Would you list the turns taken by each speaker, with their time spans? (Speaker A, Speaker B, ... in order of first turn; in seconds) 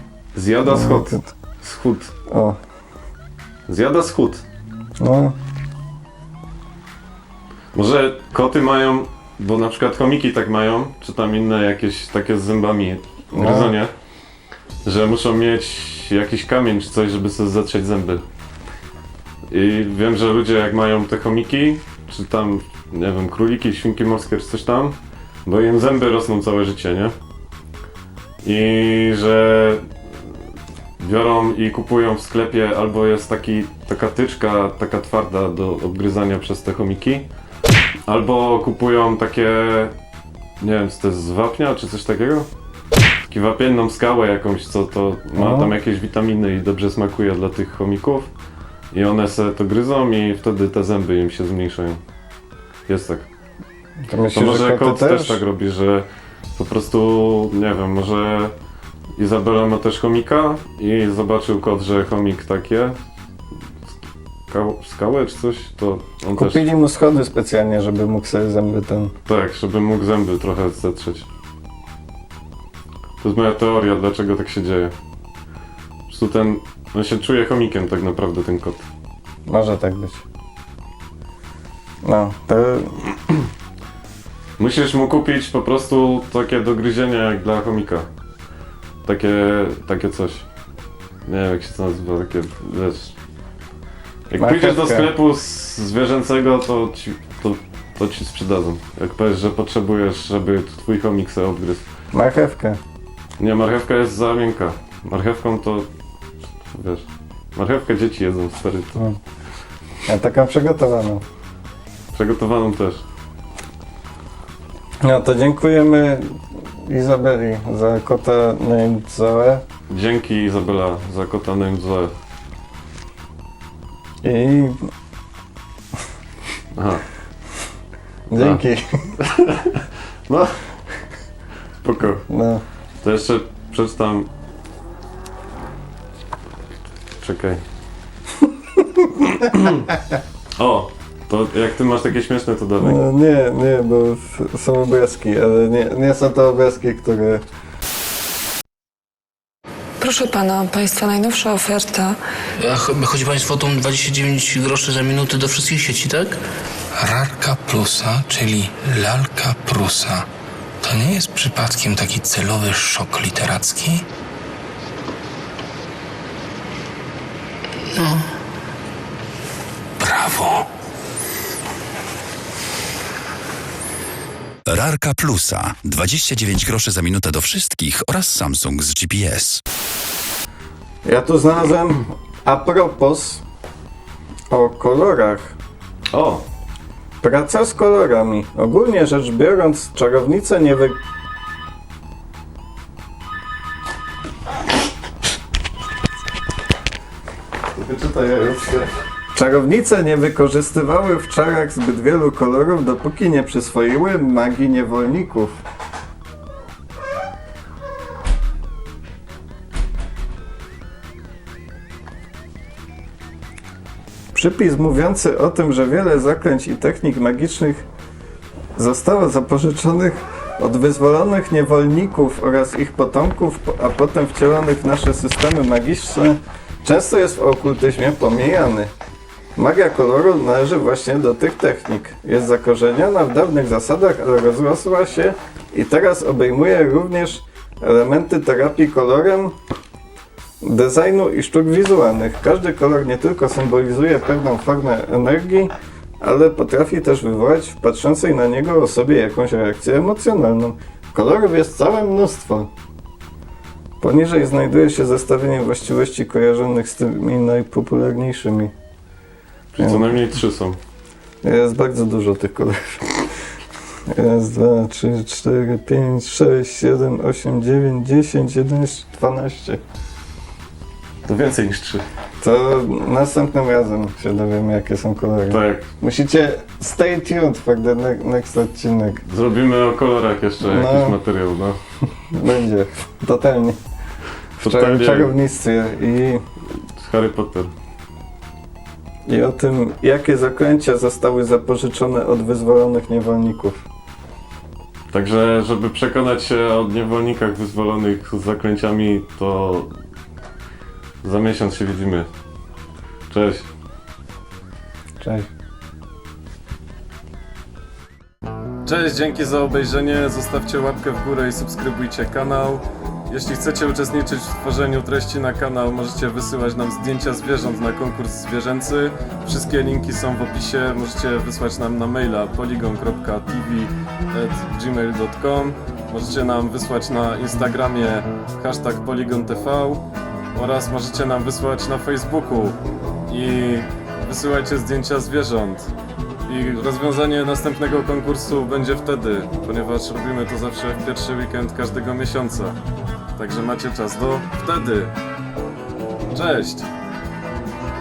Speaker A: 0.3-2.1, 3.7-4.4, 7.7-13.9, 14.8-18.2, 19.5-27.1, 28.4-29.8, 31.0-37.3, 38.1-39.9, 40.6-42.5, 43.3-48.3, 48.9-52.0, 52.9-53.3, 54.3-58.5, 59.2-62.9, 64.5-66.7, 69.2-71.3, 73.2-74.9, 76.1-78.8, 84.6-88.1, 89.0-90.5, 91.3-93.1, 94.3-101.8, 103.4-105.9, 106.7-107.0, 107.5-109.0, 112.1-113.0, 119.9-122.1, 126.7-127.0, 128.4-128.6, 129.2-130.5, 131.8-132.2, 133.0-134.3, 137.2-137.6, 139.5-139.8, 140.6-143.0, 186.1-186.4, 197.7-198.9, 259.7-260.8, 271.2-272.0, 275.5-275.9, 279.2-281.8, 284.6-285.3, 286.9-287.7, 295.1-299.9, 301.2-302.3, 303.3-303.6, 308.8-335.9, 336.5-342.8, 343.4-345.1, 346.3-346.9
Speaker B: 0.6-1.3, 2.3-2.6, 5.0-5.3, 13.3-13.8, 45.4-45.7, 54.1-55.4, 66.3-69.1, 79.5-80.2, 82.0-83.1, 94.4-95.1, 102.1-102.8, 110.0-111.2, 115.0-119.6, 124.2-124.8, 128.3-129.1, 132.3-132.6, 142.8-147.4, 181.0-183.4, 184.5-185.6, 187.2-191.0, 199.3-205.6, 214.3-217.8, 218.8-228.9, 229.6-239.6, 240.6-252.7, 254.0-258.7, 259.8-260.1, 261.4-263.0, 264.1-269.8, 272.4-279.2, 280.6-281.2, 282.3-283.8, 284.6-286.4, 289.2-293.8, 305.2-305.5
Speaker C: 150.0-152.2
Speaker D: 152.6-156.4, 157.0-160.3, 160.8-164.1, 170.0-170.7
Speaker E: 174.7-179.6